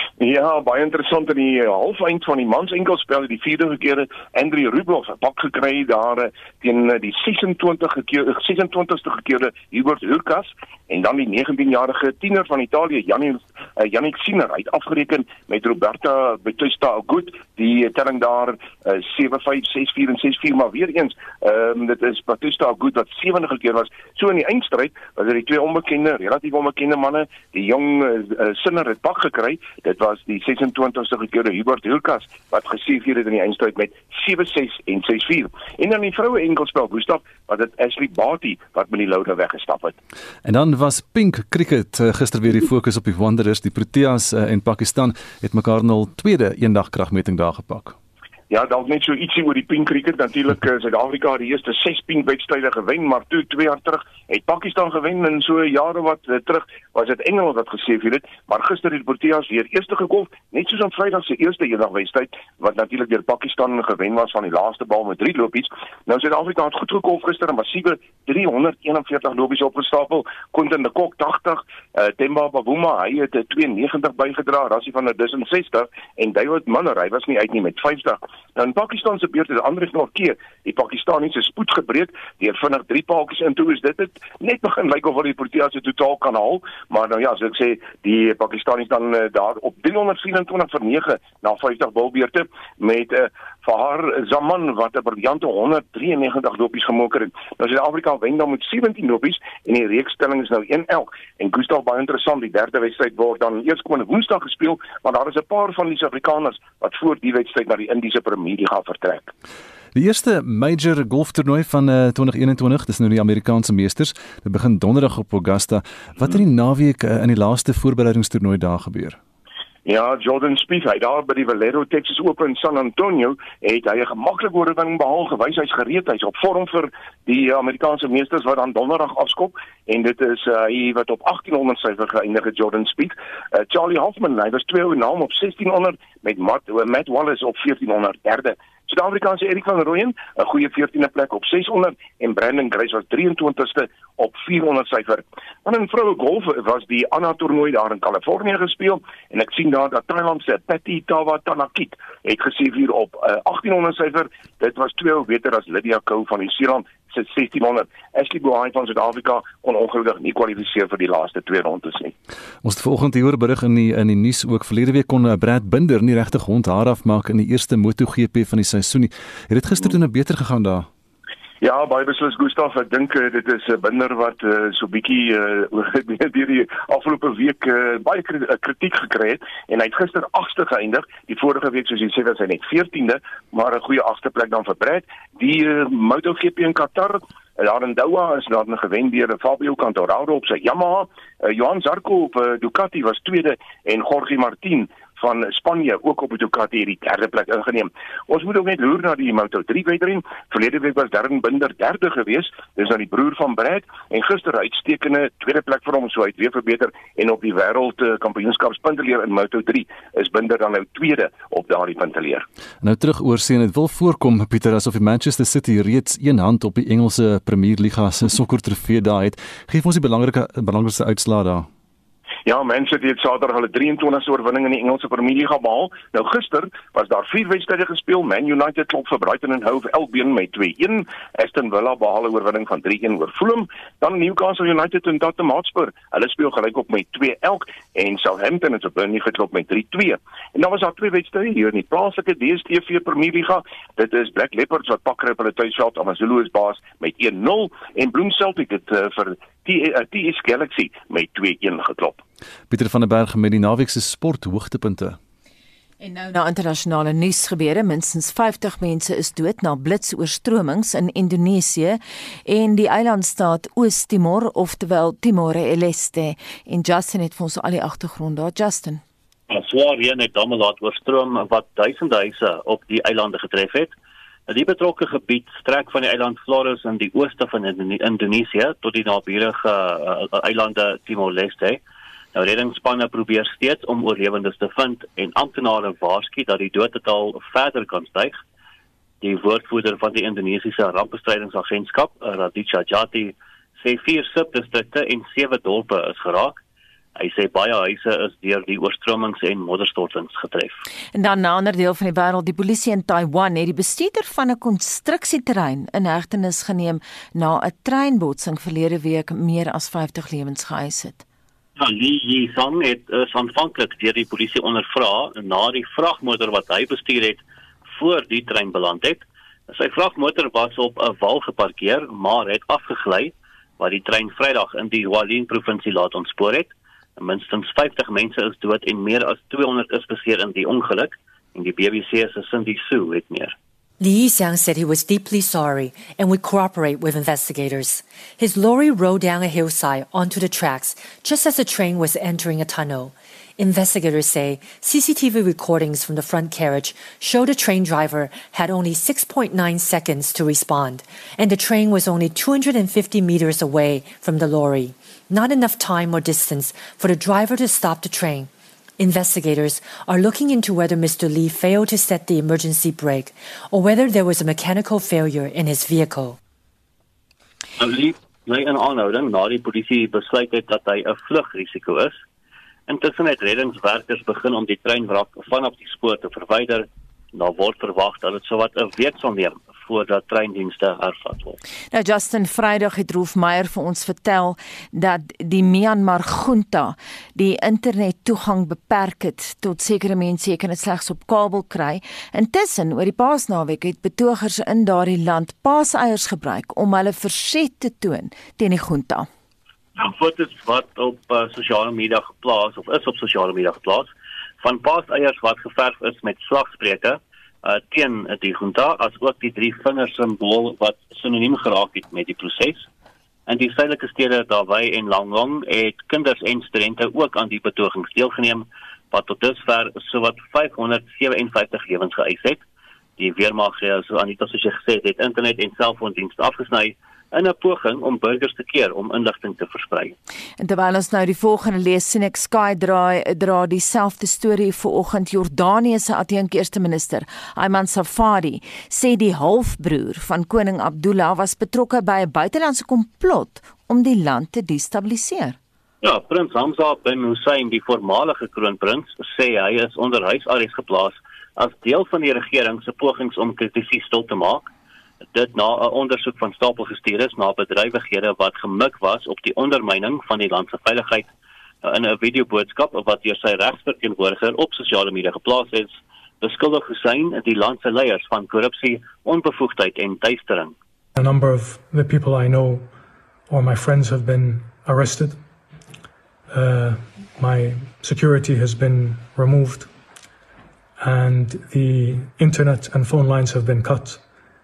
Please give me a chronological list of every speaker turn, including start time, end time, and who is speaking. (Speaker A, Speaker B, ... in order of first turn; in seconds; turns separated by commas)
Speaker A: 0.2-40.0, Speaker B: 40.5-48.0, Speaker A: 48.5-109.3, Speaker B: 110.0-119.2, Speaker A: 119.8-162.1, Speaker B: 162.6-170.9, Speaker A: 171.6-212.4, Speaker B: 212.8-221.7, Speaker A: 222.5-252.2, Speaker B: 252.7-255.2, Speaker C: 256.0-269.0, Speaker D: 269.5-273.9, Speaker D: 274.5-281.8, Speaker D: 282.4-288.4, Speaker D: 289.2-296.6, Speaker D: 297.2-300.8, Speaker C: 301.1-311.2, Speaker D: 311.8-333.5, Speaker E: 334.0-366.4, Speaker D: 367.8-372.2, Speaker D: 372.9-381.6, Speaker C: 381.9-399.3, Speaker D: 400.0-412.9, Speaker D: 413.5-422.6, Speaker D: 423.2-430.1, Speaker C: 430.6-445.6, Speaker D: 446.0-454.7, Speaker D: 455.3-461.3, Speaker D: 461.8-470.8, Speaker F: 471.1-472.9, Speaker F: 473.5-475.4, Speaker F: 476.5-479.9, Speaker F: 481.0-484.2